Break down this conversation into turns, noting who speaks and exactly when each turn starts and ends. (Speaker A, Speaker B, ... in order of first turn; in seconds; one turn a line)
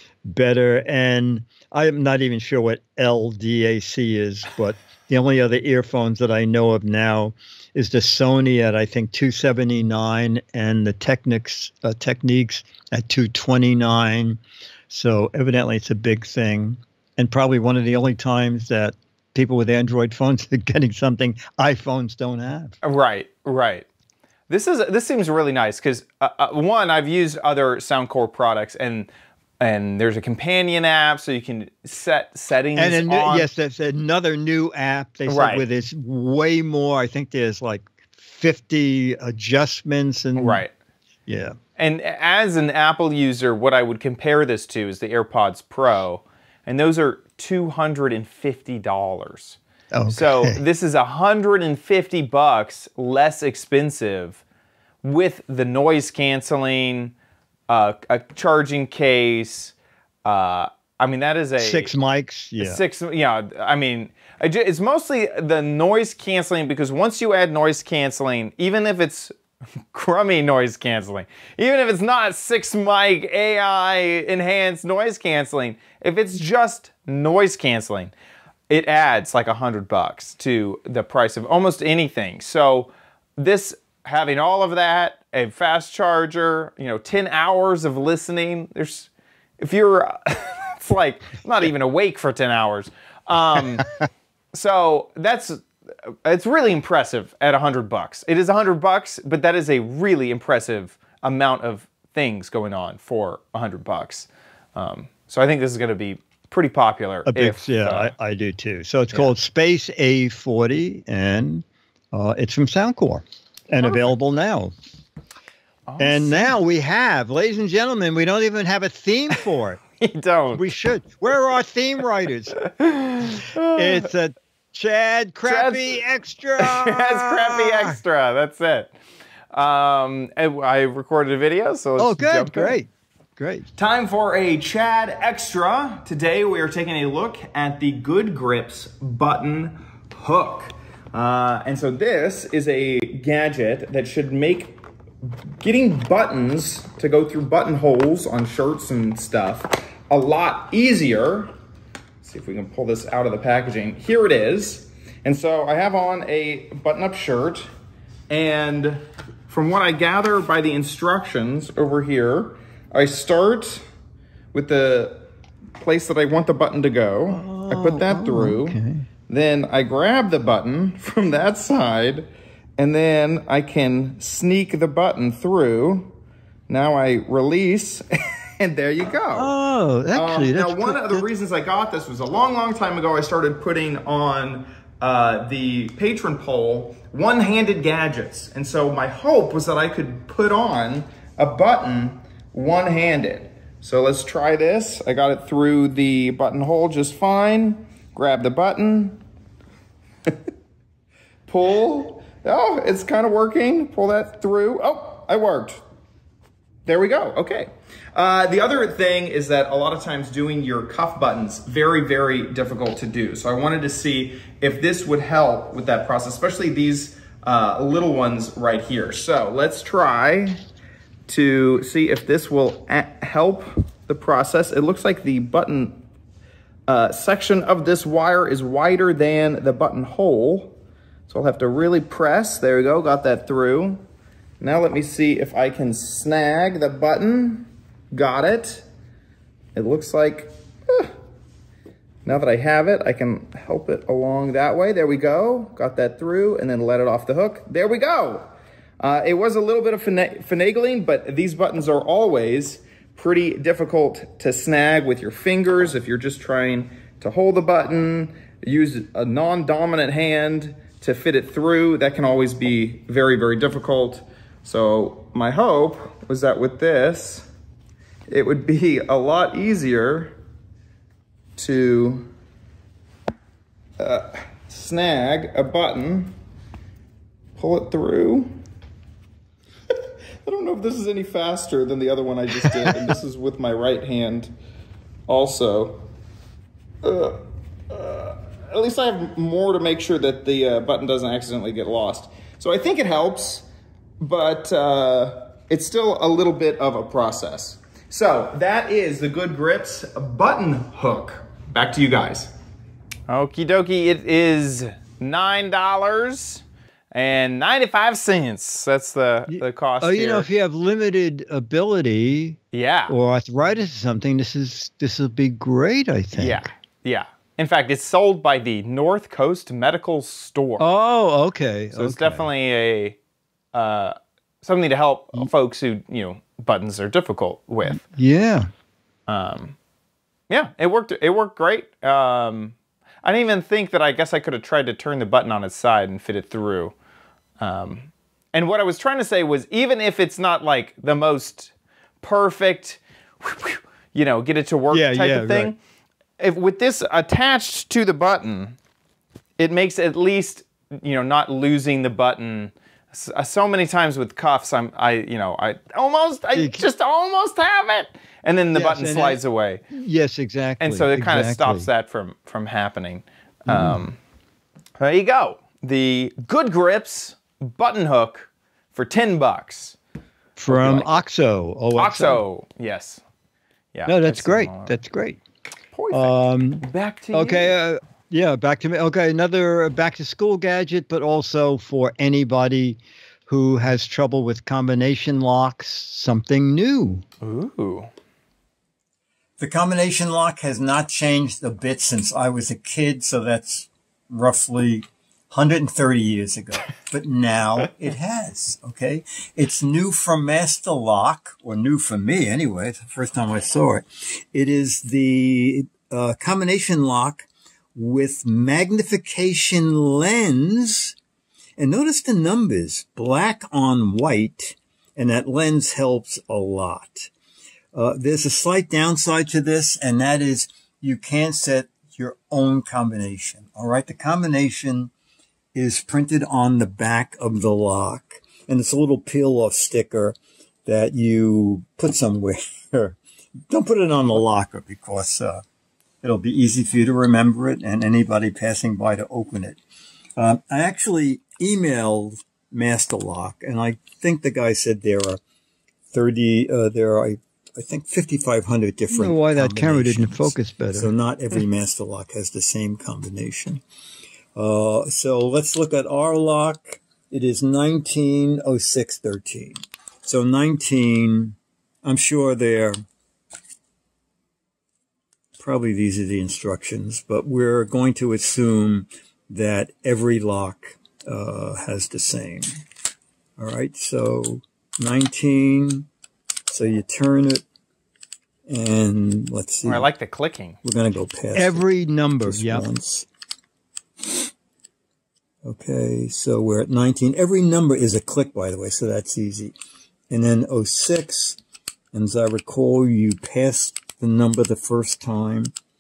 Speaker A: 0.2-22.8
Speaker B: 22.8-23.9
Speaker B: 24.5-29.1
Speaker B: 29.6-33.5
Speaker A: 32.8-40.6
Speaker B: 35.3-35.6
Speaker B: 40.4-40.7
Speaker A: 41.3-41.6
Speaker B: 41.8-54.4
Speaker A: 49.9-50.6
Speaker B: 55.0-57.1
Speaker B: 57.7-61.9
Speaker A: 61.6-62.8
Speaker B: 62.6-69.3
Speaker B: 69.9-78.1
Speaker B: 78.7-89.1
Speaker B: 89.6-93.9
Speaker B: 94.5-95.7
Speaker B: 96.2-108.1
Speaker A: 107.3-114.7
Speaker B: 115.9-116.5
Speaker A: 116.0-119.8
Speaker B: 120.0-120.7
Speaker A: 120.5-122.6
Speaker B: 122.7-124.1
Speaker A: 123.2-128.0
Speaker B: 125.5-126.0
Speaker B: 126.6-128.9
Speaker B: 129.5-132.8
Speaker A: 132.0-133.7
Speaker B: 133.8-144.8
Speaker B: 145.6-151.5
Speaker B: 152.2-157.7
Speaker B: 158.3-163.8
Speaker B: 164.5-165.3
Speaker B: 165.8-172.3
Speaker A: 167.3-169.1
Speaker B: 172.8-176.1
Speaker B: 176.7-178.1
Speaker B: 178.6-179.5
Speaker A: 179.3-181.3
Speaker B: 180.1-199.2
Speaker B: 201.5-205.8
Speaker B: 206.9-220.6
Speaker B: 221.3-226.0
Speaker B: 226.9-230.8
Speaker B: 231.3-234.0
Speaker B: 234.6-238.9
Speaker B: 239.8-241.1
Speaker B: 242.3-267.5
Speaker B: 268.3-270.3
Speaker B: 271.6-272.3
Speaker B: 274.0-276.4
Speaker B: 277.6-278.6
Speaker B: 280.4-284.5
Speaker B: 285.3-286.0
Speaker B: 287.0-287.4
Speaker B: 287.9-293.6
Speaker B: 294.2-302.5
Speaker B: 303.3-310.5
Speaker A: 309.5-316.7
Speaker B: 312.7-313.2
Speaker B: 316.4-320.9
Speaker A: 320.8-322.5
Speaker B: 321.9-323.2
Speaker B: 323.7-328.0
Speaker A: 327.9-328.7
Speaker B: 329.3-329.8
Speaker B: 330.5-336.9
Speaker B: 337.6-345.8
Speaker A: 344.9-345.7
Speaker B: 346.4-348.8
Speaker B: 349.6-359.8
Speaker A: 356.5-356.9
Speaker A: 358.7-361.9
Speaker B: 360.8-364.2
Speaker A: 363.7-364.0
Speaker B: 365.0-370.0
Speaker A: 370.6-372.4
Speaker B: 370.7-371.2
Speaker B: 371.9-373.2
Speaker B: 373.9-375.0
Speaker A: 374.1-375.4
Speaker B: 375.9-377.8
Speaker A: 376.1-387.2
Speaker B: 387.4-388.1
Speaker C: 389.6-411.1
Speaker C: 411.8-417.3
Speaker C: 417.9-425.1
Speaker C: 425.8-433.2
Speaker C: 433.7-435.6
Speaker C: 436.2-439.8
Speaker C: 440.4-445.4
Speaker C: 446.1-453.8
Speaker A: 449.1-451.1
Speaker C: 454.6-463.0
Speaker C: 465.6-472.7
Speaker C: 473.6-476.1
Speaker C: 476.7-477.6
Speaker C: 478.7-480.1
Speaker B: 479.9-480.8
Speaker C: 480.8-481.9
Speaker A: 481.5-482.9
Speaker C: 482.4-483.3
Speaker C: 485.6-489.8
Speaker C: 490.3-491.6
Speaker C: 492.1-495.7